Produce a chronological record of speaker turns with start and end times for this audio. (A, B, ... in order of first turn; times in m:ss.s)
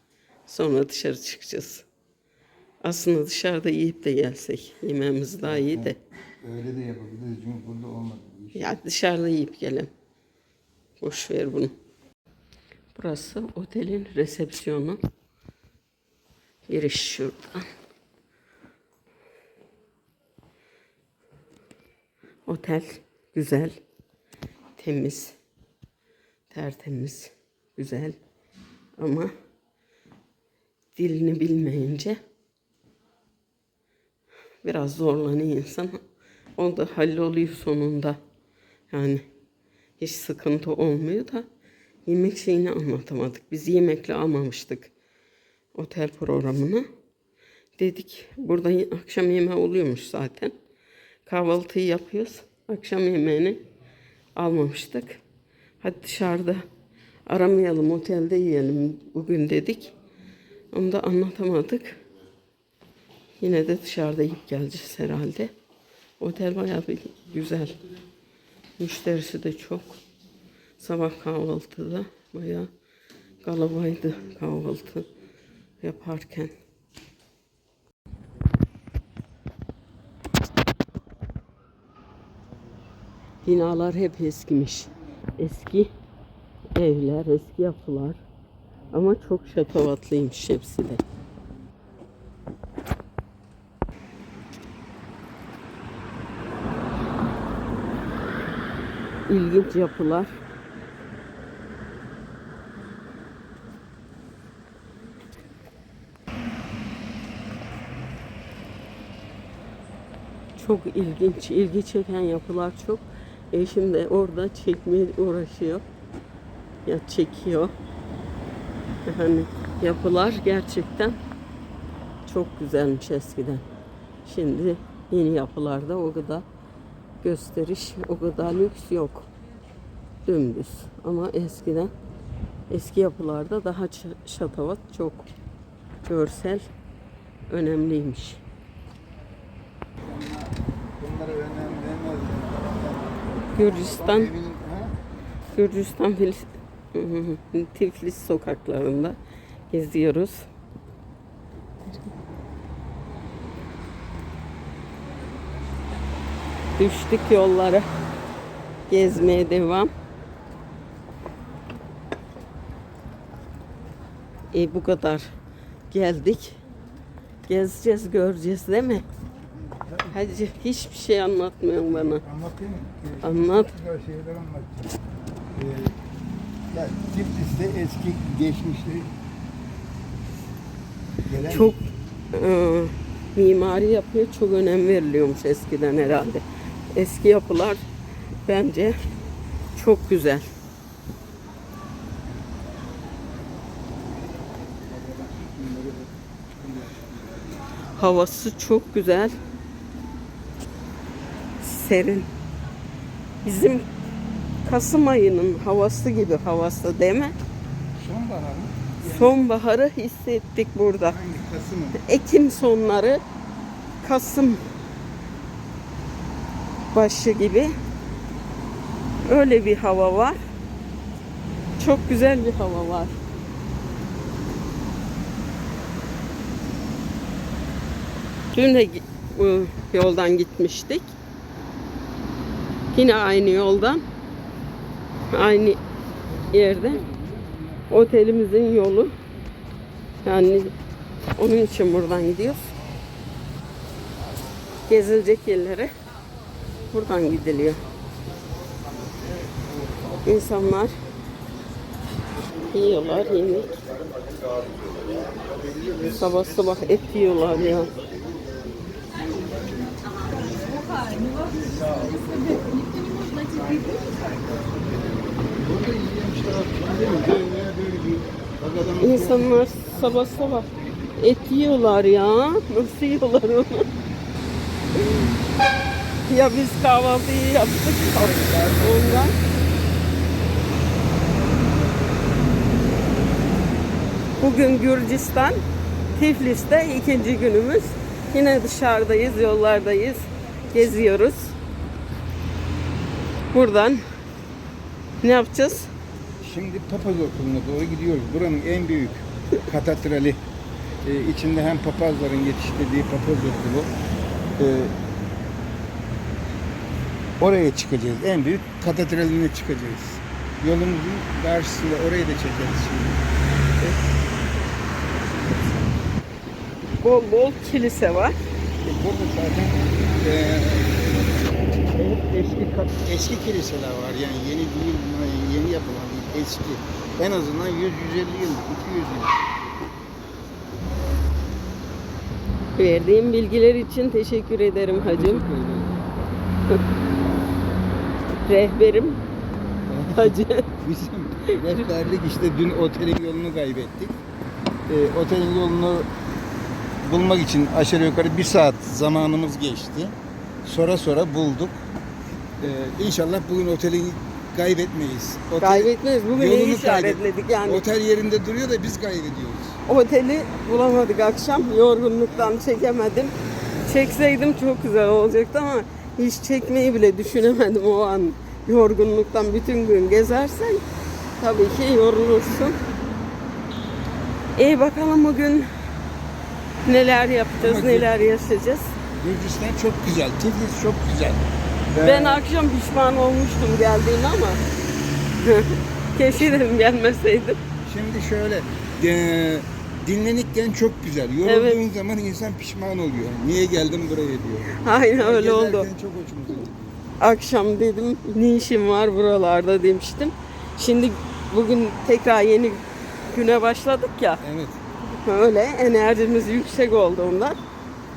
0:00.5-0:01.8 A
0:02.8-0:06.0 A
0:05.4-0:08.6 B
0:08.5-0:09.9 A
0:11.0-0:11.7 A
0:12.9-0:15.0 A
0:16.7-0:17.7 A
0:22.5-0:23.8 A
0:24.8-0:25.3 A
0:26.5-0:28.2 A
0:29.0-0:29.3 A
0:31.0-0:32.2 A
0:34.6-0:36.0 A
0:36.6-0:38.2 A
0:38.9-0:39.2 A
0:40.0-0:41.4 A
0:42.0-0:44.9 A
0:45.7-0:46.8 A
0:47.8-0:50.5 A
0:51.3-0:53.6 A
0:54.4-0:55.2 A
0:55.8-0:56.6 A
0:57.3-0:59.9 A
1:00.7-1:02.0 A
1:03.4-1:05.5 A
1:06.2-1:07.8 A
1:08.8-1:10.0 A
1:10.8-1:12.7 A
1:13.4-1:15.0 A
1:15.8-1:16.5 A
1:23.4-1:25.9 A
1:26.8-1:28.2 A
1:28.9-1:31.0 A
1:39.3-1:40.4 A
1:50.6-1:55.8 A
1:56.8-1:57.7 A
1:59.0-2:01.2 A
2:02.2-2:03.6 A
2:04.2-2:06.4 A
2:07.2-2:09.3 A
2:10.2-2:11.9 A
2:12.7-2:15.3 A
2:16.0-2:16.6 A
2:17.5-2:18.4 A
2:20.0-2:24.9 B
2:23.6-2:24.3 A
2:25.5-2:29.2 A
2:29.7-2:30.5 A
2:36.8-2:37.9 A
2:38.9-2:39.9 A
2:44.5-2:45.3 A
2:45.9-2:46.6 A
2:47.5-2:49.0 A
2:49.8-2:50.2 B
2:50.1-2:52.2 A
2:51.9-2:55.0 B
2:53.2-2:53.7 A
2:55.5-2:55.9 B
2:56.7-2:59.1 B
3:01.2-3:01.7 B
3:01.5-3:06.4 A
3:06.9-3:07.8 A
3:08.4-3:09.0 A
3:09.7-3:10.5 A
3:15.0-3:17.4 B
3:18.0-3:19.3 A
3:21.6-3:22.3 A
3:23.4-3:23.8 A
3:24.6-3:27.3 A
3:28.0-3:29.3 B
3:29.0-3:31.2 A
3:31.1-3:32.0 B
3:32.0-3:33.2 A
3:34.0-3:34.6 A
3:36.9-3:37.7 A
3:39.2-3:40.4 A
3:41.8-3:43.2 A
3:48.5-3:51.1 A
3:52.9-3:54.0 A
3:55.3-3:55.8 A
3:56.3-3:57.8 B
3:56.5-3:57.0 A
3:57.9-3:59.1 A
4:00.2-4:00.7 A
4:01.4-4:02.7 A
4:04.9-4:05.9 A
4:06.9-4:07.8 A
4:10.2-4:10.9 A
4:12.7-4:13.7 A
4:16.1-4:17.9 A
4:21.6-4:22.8 B
4:25.5-4:30.0 B
4:29.0-4:30.7 A
4:31.2-4:33.8 A
4:36.3-4:39.4 A
4:37.9-4:39.3 B
4:44.4-4:45.6 A
4:46.1-4:51.5 A
4:53.5-4:54.0 A
4:55.2-4:55.9 A
4:56.4-5:00.4 B
5:01.0-5:03.9 B
5:04.6-5:04.9 B
5:07.4-5:13.2 B
5:17.0-5:18.3 A
5:18.8-5:21.1 B
5:22.0-5:29.4 B
5:32.8-5:35.4 A
5:34.9-5:36.2 B
5:38.4-5:39.2 A
5:39.9-5:44.2 B
5:40.2-5:40.7 A
5:41.5-5:41.8 A
5:44.9-5:46.1 B
5:47.0-5:51.8 B
5:52.6-5:59.8 B
5:55.6-5:57.8 A
5:59.9-6:03.3 A
6:03.8-6:10.8 A
6:11.4-6:12.8 A
6:14.6-6:15.7 A
6:16.8-6:19.0 A
6:17.6-6:18.3 B
6:19.2-6:22.4 B
6:22.0-6:24.6 A
6:25.4-6:27.6 A
6:27.8-6:36.9 B
6:31.4-6:31.8 A
6:34.7-6:35.9 A
6:37.2-6:42.8 A
6:43.3-6:44.4 A
6:44.4-6:44.8 B
6:45.2-6:47.6 A